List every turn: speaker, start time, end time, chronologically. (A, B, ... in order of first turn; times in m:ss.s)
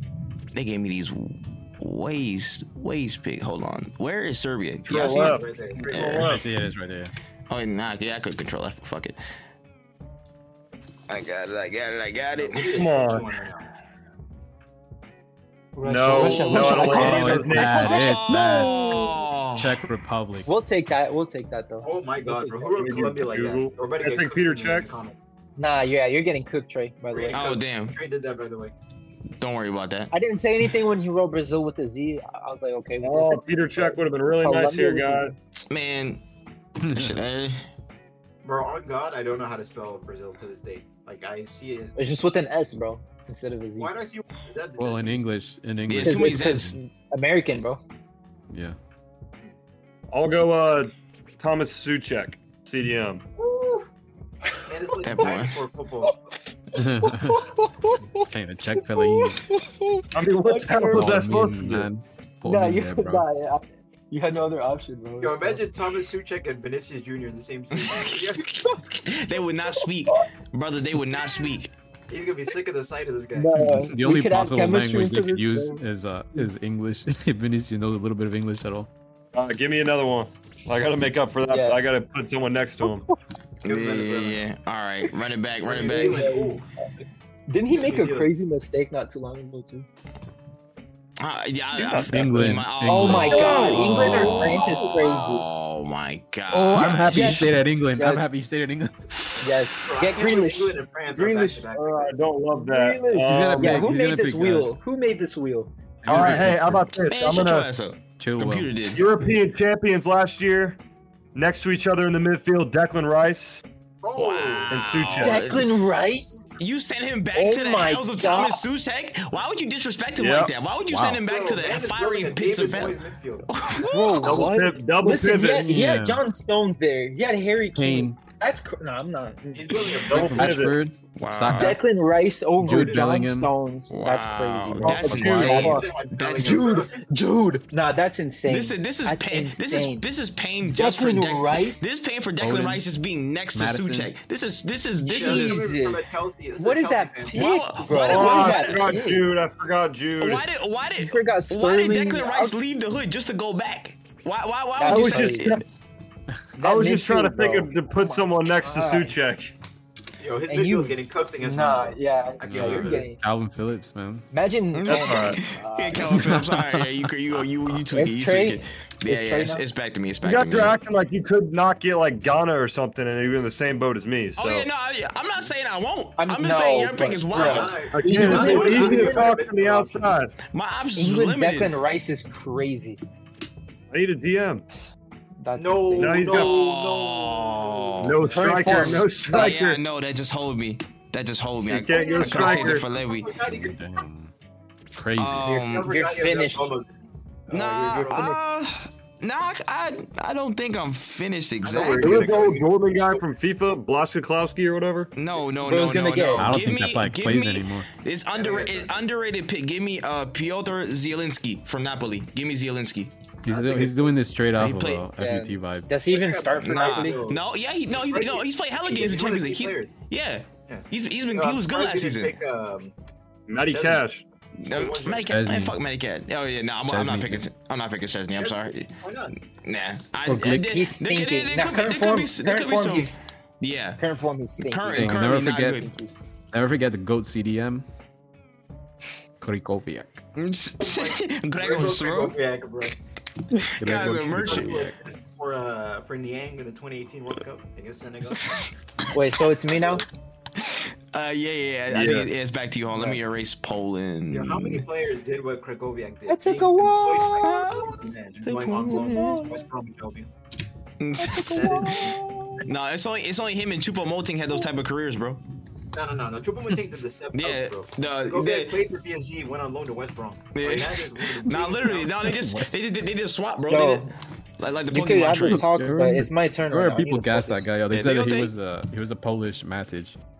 0:00.5-0:05.3 A
0:04.9-0:06.4 B
0:04.9-0:06.3 C
0:05.1-0:05.3 D
0:05.9-0:06.3 A
0:06.2-0:07.1 E
0:07.5-0:09.2 A
0:11.1-0:12.8 A
0:12.3-0:13.7 C
0:12.7-0:13.2 B
0:15.7-0:19.1 D
0:15.8-0:18.0 B
0:16.1-0:17.1 C
0:16.5-0:18.9 E
0:17.8-0:19.8 A
0:19.5-0:20.5 E
0:20.4-0:23.0 D
0:21.8-0:25.1 C
0:22.8-0:24.9 B
0:25.6-0:27.4 D
0:27.1-0:28.7 C
0:27.3-0:27.9 A
0:29.4-0:30.1 A
0:30.1-0:35.3 D
0:33.0-0:35.3 B
0:35.7-0:36.2 A
0:36.8-0:37.2 E
0:36.9-0:37.7 A
0:38.4-0:41.9 C
0:42.0-0:43.9 D
0:43.8-0:45.2 C
0:44.8-0:46.6 E
0:45.9-0:46.7 A
0:46.0-0:47.8 D
0:48.5-0:48.8 E
0:50.1-0:53.2 B
0:53.4-0:53.8 C
0:54.6-0:56.2 C
0:55.0-0:55.6 A
0:56.7-0:57.4 E
0:56.8-0:58.2 D
0:58.2-0:59.4 E
0:58.8-1:01.3 D
1:00.1-1:01.9 B
1:00.8-1:03.2 E
1:02.4-1:05.6 D
1:05.2-1:08.5 C
1:07.9-1:08.2 A
1:08.5-1:08.8 D
1:08.9-1:11.7 A
1:09.8-1:10.2 D
1:12.1-1:13.6 C
1:13.3-1:15.8 D
1:13.6-1:18.9 E
1:19.3-1:23.1 B
1:21.5-1:21.8 D
1:23.6-1:24.5 C
1:23.6-1:26.3 A
1:25.6-1:26.7 C
1:25.8-1:26.7 D
1:27.5-1:29.8 D
1:27.7-1:28.3 C
1:31.2-1:37.4 A
1:31.7-1:32.1 B
1:32.1-1:34.4 E
1:32.8-1:35.4 D
1:33.1-1:34.8 C
1:36.5-1:38.9 E
1:37.0-1:38.2 D
1:39.4-1:41.9 D
1:39.8-1:42.2 C
1:41.2-1:43.9 B
1:42.6-1:46.4 D
1:43.2-1:44.7 E
1:46.0-1:46.9 E
1:46.0-1:47.7 B
1:47.0-1:49.0 A
1:48.2-1:48.9 E
1:48.9-1:50.8 B
1:51.3-1:53.6 B
1:54.0-1:54.8 C
1:54.2-1:55.7 A
1:54.7-1:55.4 B
1:55.2-1:56.4 D
1:56.6-2:04.5 A
1:57.3-1:58.6 D
2:00.2-2:00.5 B
2:00.9-2:01.2 E
2:01.2-2:03.5 C
2:03.7-2:10.3 D
2:04.2-2:05.8 B
2:05.6-2:06.2 E
2:07.7-2:08.2 E
2:09.5-2:10.7 C
2:10.1-2:10.8 B
2:10.1-2:11.8 E
2:11.1-2:11.8 A
2:11.5-2:20.0 D
2:12.6-2:13.5 E
2:12.6-2:13.0 C
2:13.9-2:16.8 A
2:14.8-2:15.8 E
2:14.8-2:15.8 B
2:15.3-2:17.0 C
2:18.5-2:25.6 A
2:20.6-2:21.8 D
2:22.4-2:22.8 E
2:23.5-2:24.1 E
2:25.0-2:26.0 D
2:25.1-2:27.5 C
2:26.6-2:29.3 D
2:27.3-2:28.8 A
2:28.1-2:30.4 B
2:28.1-2:28.7 C
2:30.2-2:35.6 A
2:31.0-2:32.6 D
2:34.8-2:35.6 D
2:34.8-2:35.6 B
2:36.6-2:39.2 D
2:36.6-2:39.5 B
2:40.2-2:43.0 C
2:40.5-2:43.2 D
2:42.4-2:44.3 E
2:44.3-2:46.4 D
2:44.7-2:50.8 A
2:44.9-2:45.4 B
2:46.1-2:46.8 E
2:47.9-2:49.6 D
2:50.2-2:54.7 B
2:54.4-2:58.8 A
2:56.2-2:59.3 D
2:57.3-3:00.2 C
2:57.9-3:00.3 B
3:00.5-3:01.7 A
3:01.0-3:03.0 D
3:03.9-3:04.6 B
3:05.4-3:06.3 D
3:05.5-3:08.8 C
3:06.0-3:06.6 B
3:06.3-3:13.3 A
3:08.0-3:09.8 B
3:08.2-3:09.6 D
3:11.7-3:12.8 B
3:11.9-3:13.9 C
3:13.4-3:14.3 E
3:14.9-3:15.6 E
3:15.1-3:15.9 A
3:15.4-3:18.3 C
3:15.5-3:16.7 D
3:17.5-3:18.4 D
3:17.5-3:22.4 A
3:21.6-3:22.7 C
3:22.0-3:25.1 B
3:25.1-3:33.1 A
3:25.6-3:26.7 D
3:26.4-3:27.9 E
3:28.3-3:29.0 C
3:33.4-3:35.9 E
3:33.5-3:34.1 C
3:34.5-3:35.0 A
3:35.2-3:37.2 D
3:36.0-3:39.9 C
3:36.6-3:42.4 A
3:40.7-3:42.9 C
3:43.5-3:44.2 B
3:43.6-3:44.0 C
3:44.6-3:48.9 A
3:44.7-3:45.3 C
3:45.3-3:45.8 E
3:46.8-3:47.5 E
3:48.3-3:49.3 C
3:49.6-3:54.0 A
3:50.3-3:50.6 E
3:50.4-3:53.2 D
3:54.0-3:56.1 D
3:54.6-3:55.9 A
3:54.9-3:55.8 E
3:56.5-3:57.8 E
3:59.4-4:00.2 E
4:00.4-4:02.3 A
4:00.8-4:03.0 C
4:03.6-4:04.9 A
4:03.7-4:05.0 E
4:03.8-4:08.6 C
4:08.4-4:08.7 A
4:09.1-4:10.0 D
4:09.7-4:10.0 C
4:10.6-4:14.8 A
4:11.9-4:12.3 B
4:14.3-4:20.3 C
4:16.3-4:17.6 D
4:17.4-4:19.5 A
4:18.9-4:19.4 D
4:21.0-4:21.9 A
4:21.2-4:22.7 D
4:21.3-4:22.2 C
4:22.6-4:25.4 A
4:25.9-4:32.3 C
4:27.3-4:28.8 A
4:30.5-4:35.6 A
4:32.2-4:32.7 E
4:33.7-4:34.1 D
4:34.9-4:37.6 D
4:35.4-4:40.2 E
4:37.9-4:38.5 A